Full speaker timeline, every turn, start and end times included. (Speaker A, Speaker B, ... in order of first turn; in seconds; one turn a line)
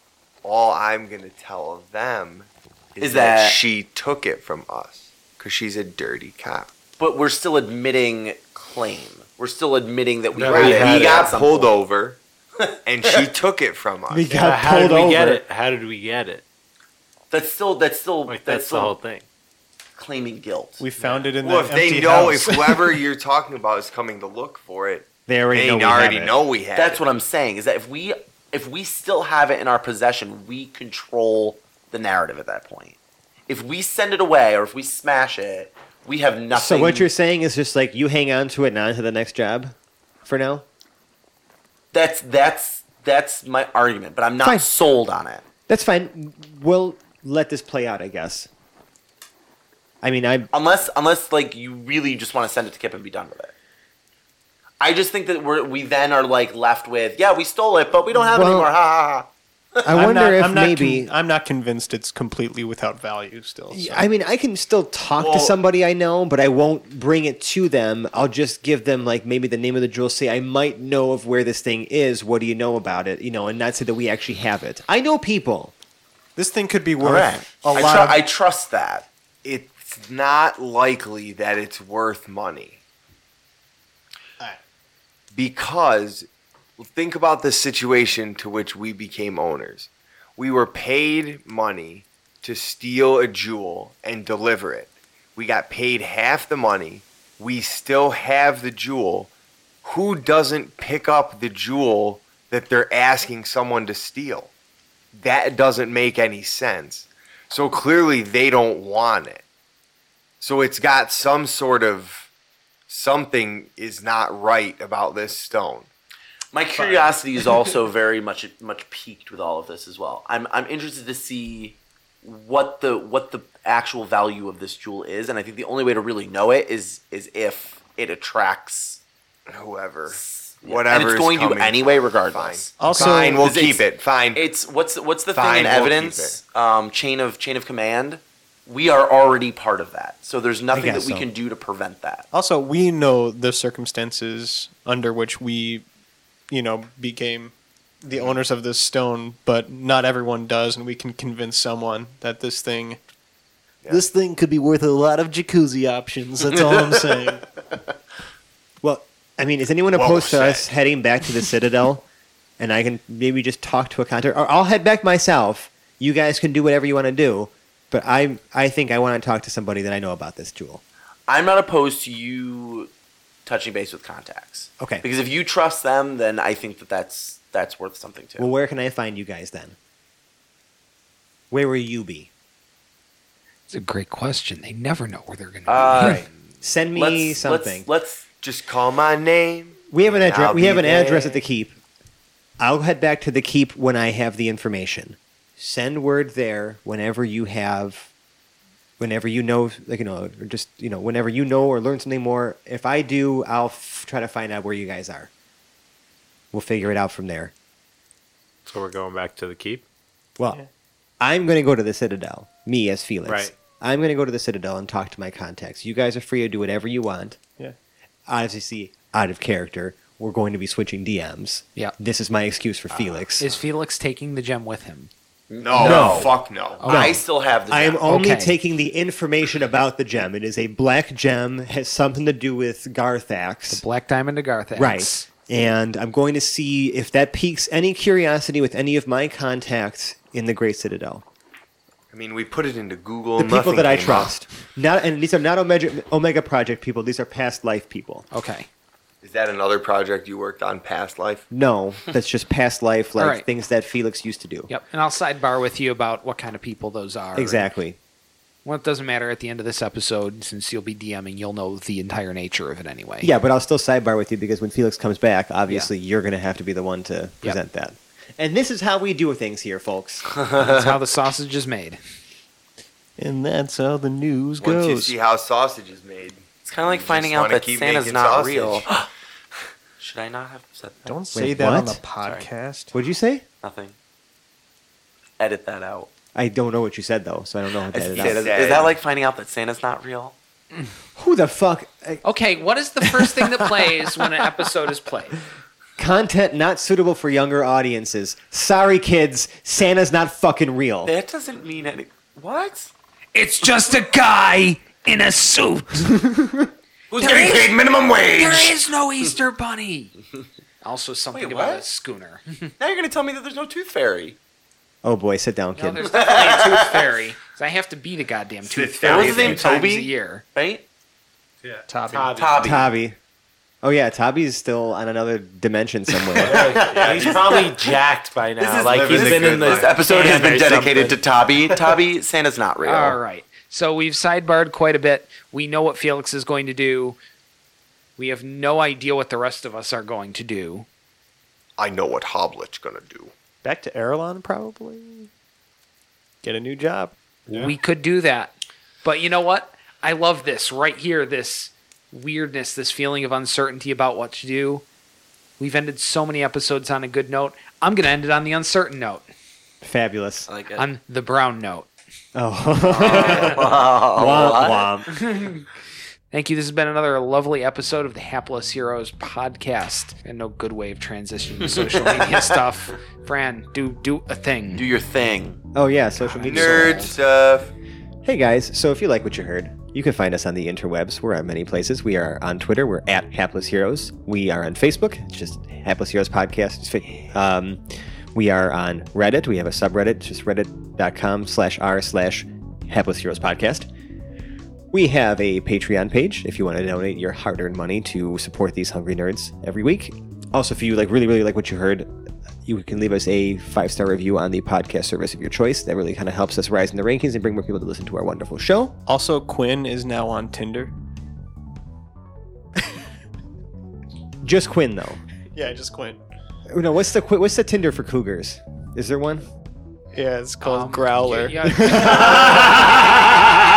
Speaker A: 0.4-6.7
Speaker B: 3.0-3.6
Speaker B: 7.0-11.7
Speaker C: 10.3-11.3
Speaker A: 10.4-12.2
Speaker B: 12.6-13.3
Speaker A: 12.8-14.3
Speaker D: 14.1-15.4
Speaker C: 14.3-16.4
Speaker B: 17.3-18.9
Speaker C: 18.3-19.2
Speaker B: 20.0-20.8
Speaker E: 20.8-22.9
Speaker C: 21.0-21.3
Speaker A: 21.4-27.0
Speaker D: 25.3-26.3
Speaker B: 26.7-33.0
Speaker B: 33.5-37.1
Speaker D: 36.5-40.6
Speaker B: 41.9-45.4
Speaker D: 44.4-44.7
Speaker D: 45.7-48.5
Speaker D: 50.0-50.5
Speaker B: 50.5-53.5
Speaker B: 54.8-59.8
Speaker D: 58.1-58.7
Speaker D: 59.9-61.1
Speaker E: 59.9-64.0
Speaker D: 63.7-75.7
Speaker B: 65.2-65.5
Speaker E: 76.3-78.2
Speaker B: 77.0-79.0
Speaker A: 79.4-82.8
Speaker A: 85.3-86.3
Speaker A: 86.8-99.3
Speaker A: 99.8-104.5
Speaker A: 105.1-109.4
Speaker A: 110.4-112.3
Speaker A: 112.9-115.9
Speaker B: 116.5-129.0
Speaker A: 129.5-134.4
Speaker B: 130.1-142.3
Speaker E: 132.8-133.5
Speaker A: 135.3-136.4
Speaker D: 140.7-141.2
Speaker E: 142.3-145.8
Speaker E: 146.5-153.0
Speaker A: 148.1-148.4
Speaker A: 153.8-154.1
Speaker E: 153.9-157.4
Speaker B: 156.7-156.9
Speaker D: 158.8-162.1
Speaker A: 159.9-160.7
Speaker D: 162.6-170.8
Speaker B: 171.3-172.9
Speaker B: 173.4-178.5
Speaker D: 174.8-175.0
Speaker D: 178.4-179.8
Speaker D: 181.5-182.3
Speaker F: 183.7-186.2
Speaker B: 185.7-186.3
Speaker D: 186.6-187.8
Speaker B: 186.9-188.2
Speaker A: 188.4-191.3
Speaker D: 189.9-191.7
Speaker B: 190.9-191.3
Speaker D: 192.6-198.1
Speaker D: 199.0-205.3
Speaker D: 206.5-207.5
Speaker C: 208.7-209.8
Speaker D: 211.2-217.4
Speaker C: 213.2-213.5
Speaker D: 218.3-223.5
Speaker F: 223.4-225.1
Speaker B: 225.5-228.0
Speaker A: 225.6-226.8
Speaker D: 225.8-226.3
Speaker F: 226.8-227.2
Speaker D: 226.8-233.8
Speaker F: 228.1-228.5
Speaker F: 233.7-235.3
Speaker D: 234.8-241.2
Speaker A: 242.1-244.4
Speaker D: 243.4-248.2
Speaker F: 248.3-248.7
Speaker A: 249.2-251.5
Speaker D: 251.5-254.7
Speaker F: 253.2-253.5
Speaker F: 254.7-257.7
Speaker D: 257.3-258.0
Speaker F: 258.6-263.3
Speaker D: 263.2-270.2
Speaker B: 270.4-270.9
Speaker F: 270.5-272.0
Speaker E: 273.2-275.1
Speaker A: 274.6-278.9
Speaker B: 276.6-279.1
Speaker B: 280.0-281.1
Speaker E: 281.0-282.9
Speaker D: 281.3-282.0
Speaker D: 282.9-283.4
Speaker B: 283.6-283.9
Speaker B: 285.4-286.1
Speaker D: 286.3-288.5
Speaker B: 287.9-290.4
Speaker A: 288.1-289.0
Speaker D: 291.1-292.2
Speaker F: 292.2-295.4
Speaker D: 296.0-301.1
Speaker B: 301.0-302.9
Speaker F: 303.3-306.2
Speaker B: 307.1-308.8
Speaker F: 307.2-307.7
Speaker F: 308.4-310.1
Speaker F: 310.8-312.7
Speaker B: 311.3-311.8
Speaker B: 312.8-314.4
Speaker D: 315.0-316.1
Speaker F: 315.8-320.4
Speaker B: 316.1-317.1
Speaker A: 318.6-319.8
Speaker B: 319.0-320.8
Speaker C: 321.6-322.8
Speaker E: 321.9-322.3
Speaker B: 322.3-322.8
Speaker D: 322.6-323.1
Speaker D: 323.8-327.4
Speaker B: 326.3-328.0
Speaker C: 326.4-331.2
Speaker A: 326.9-327.7
Speaker B: 328.6-333.2
Speaker A: 328.8-330.4
Speaker F: 332.8-337.2
Speaker F: 338.2-340.9
Speaker A: 341.8-343.3
Speaker E: 343.6-345.3
Speaker E: 346.4-347.7
Speaker F: 347.5-354.9
Speaker F: 355.6-359.3
Speaker D: 359.8-360.5
Speaker B: 360.5-360.9
Speaker F: 360.8-361.9
Speaker D: 362.3-365.2
Speaker B: 362.8-364.9
Speaker F: 365.1-365.6
Speaker F: 366.3-374.8
Speaker B: 371.8-372.4
Speaker B: 374.7-375.6
Speaker D: 375.7-377.1
Speaker F: 376.1-377.1
Speaker A: 376.4-377.7
Speaker D: 378.2-393.9
Speaker D: 394.9-402.1
Speaker D: 402.6-408.9
Speaker E: 409.1-410.9
Speaker D: 414.4-415.2
Speaker E: 415.5-416.2
Speaker D: 416.7-419.5
Speaker E: 420.1-422.8
Speaker F: 420.6-423.2
Speaker D: 422.0-422.6
Speaker B: 422.8-423.1